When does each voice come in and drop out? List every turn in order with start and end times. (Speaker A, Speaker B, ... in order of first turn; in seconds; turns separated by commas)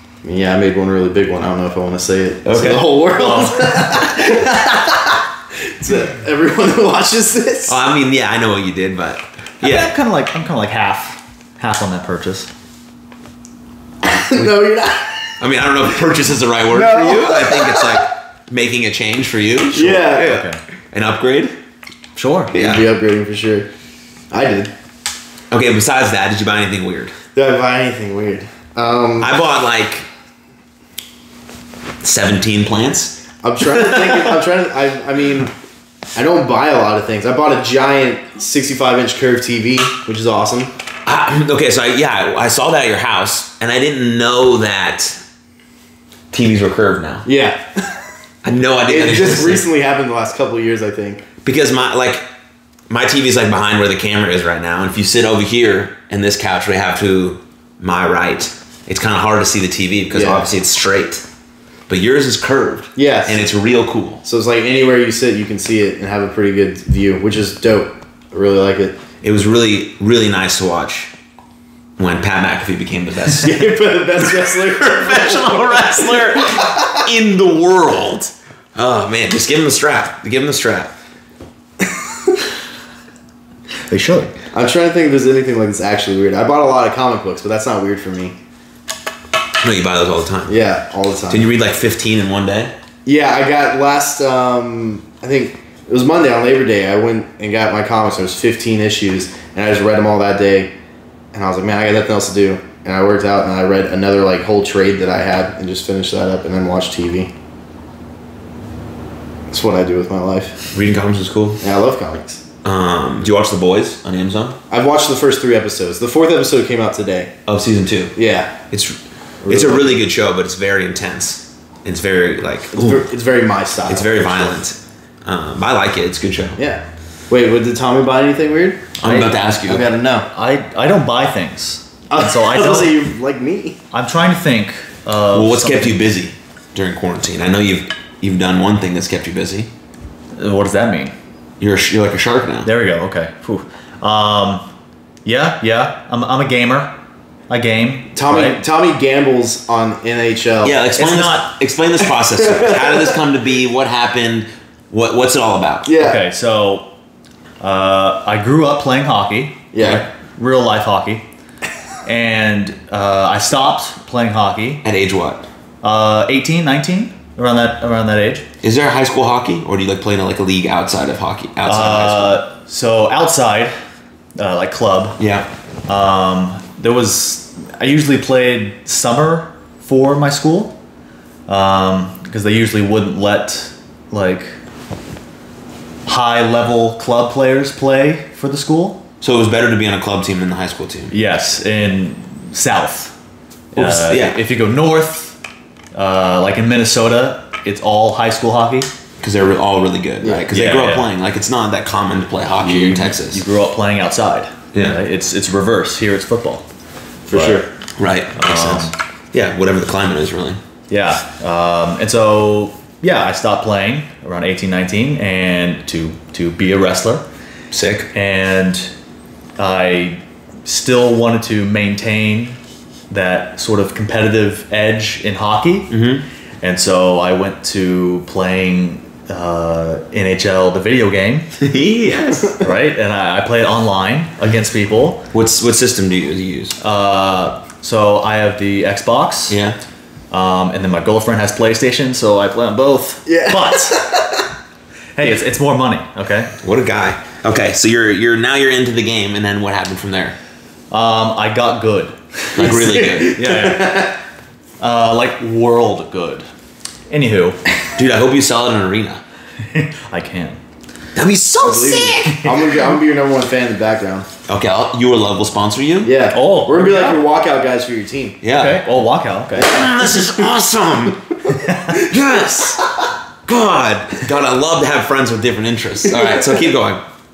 Speaker A: 0.2-7.8, Speaker B: 2.5-2.9, Speaker C: 3.2-3.9, Speaker B: 7.7-9.9, Speaker C: 9.6-12.5, Speaker A: 14.0-15.4, Speaker B: 15.4-21.6, Speaker A: 16.7-18.1, Speaker A: 19.7-20.4, Speaker C: 20.2-20.6, Speaker C: 22.2-22.5, Speaker A: 22.5-23.7, Speaker B: 22.5-22.9, Speaker A: 24.3-24.7, Speaker B: 25.5-27.1, Speaker A: 27.4-29.4, Speaker B: 29.2-30.1, Speaker B: 32.0-33.2, Speaker A: 33.4-35.5, Speaker A: 36.1-40.7, Speaker B: 41.1-45.2, Speaker B: 46.3-47.3, Speaker A: 47.2-48.0, Speaker B: 48.4-49.6, Speaker A: 48.9-51.3, Speaker B: 51.4-52.2, Speaker B: 52.9-61.2, Speaker A: 60.1-60.5, Speaker B: 61.9-64.2, Speaker A: 63.0-63.5, Speaker A: 64.2-69.0, Speaker B: 69.2-71.1, Speaker B: 72.0-73.7, Speaker A: 73.3-77.0, Speaker B: 74.4-80.9, Speaker C: 83.9-84.3, Speaker A: 84.5-88.4, Speaker B: 89.6-90.5, Speaker A: 90.5-91.5, Speaker B: 91.3-92.7, Speaker A: 93.1-100.7, Speaker A: 101.3-107.3, Speaker A: 109.5-110.6, Speaker B: 110.7-111.6, Speaker A: 111.6-112.4, Speaker B: 112.6-114.6, Speaker A: 114.7-117.3, Speaker B: 117.5-118.2, Speaker A: 118.2-118.6, Speaker B: 118.7-119.0, Speaker A: 119.4-120.0, Speaker B: 119.5-123.0, Speaker A: 122.7-124.6, Speaker B: 123.9-126.6, Speaker A: 126.6-130.3, Speaker B: 129.0-129.9, Speaker C: 130.3-133.0, Speaker A: 132.1-133.8, Speaker C: 133.9-136.1, Speaker B: 135.3-139.7, Speaker C: 140.4-141.2, Speaker B: 141.6-142.7, Speaker C: 142.6-144.7, Speaker C: 145.2-146.9, Speaker C: 147.5-148.6, Speaker A: 148.1-150.8, Speaker B: 150.6-155.9, Speaker C: 151.0-151.5, Speaker A: 152.4-153.2, Speaker A: 155.8-156.2, Speaker C: 156.0-156.9, Speaker C: 157.6-161.2, Speaker A: 159.7-160.1, Speaker C: 162.1-164.8, Speaker B: 164.8-165.5, Speaker C: 165.8-168.4, Speaker B: 168.6-172.4, Speaker C: 171.7-173.7, Speaker C: 174.4-175.2, Speaker B: 175.2-175.5, Speaker C: 175.9-180.8, Speaker C: 181.5-184.6, Speaker C: 186.1-189.0, Speaker B: 189.2-191.1, Speaker C: 191.1-193.2, Speaker C: 193.7-195.4, Speaker B: 193.8-194.4, Speaker C: 195.9-198.9, Speaker B: 199.2-203.4, Speaker C: 200.5-201.1, Speaker C: 202.6-206.7, Speaker B: 204.7-205.0, Speaker A: 207.3-207.7, Speaker C: 207.3-207.6, Speaker B: 208.0-210.6, Speaker C: 208.3-208.9, Speaker C: 210.9-217.2, Speaker B: 217.7-218.1, Speaker C: 218.1-218.9, Speaker C: 219.6-222.6, Speaker C: 223.1-225.9, Speaker B: 225.9-226.2, Speaker C: 226.6-231.5, Speaker B: 231.6-232.6, Speaker C: 232.6-235.3, Speaker B: 235.3-236.8, Speaker C: 236.8-239.6, Speaker B: 239.5-239.8, Speaker C: 240.3-244.2, Speaker A: 243.3-244.4, Speaker C: 245.2-246.5, Speaker B: 246.6-250.4, Speaker C: 250.9-254.2, Speaker B: 252.6-253.4, Speaker A: 252.6-254.2, Speaker C: 254.8-256.5, Speaker C: 257.1-257.6, Speaker B: 258.0-259.2, Speaker C: 259.6-260.6, Speaker B: 261.1-262.6, Speaker A: 261.6-264.3, Speaker B: 264.5-266.2, Speaker A: 266.0-268.4, Speaker C: 266.3-267.2, Speaker B: 268.4-268.9, Speaker C: 268.5-269.7, Speaker A: 269.6-270.5, Speaker B: 269.6-271.4, Speaker C: 271.5-272.0, Speaker B: 271.9-277.0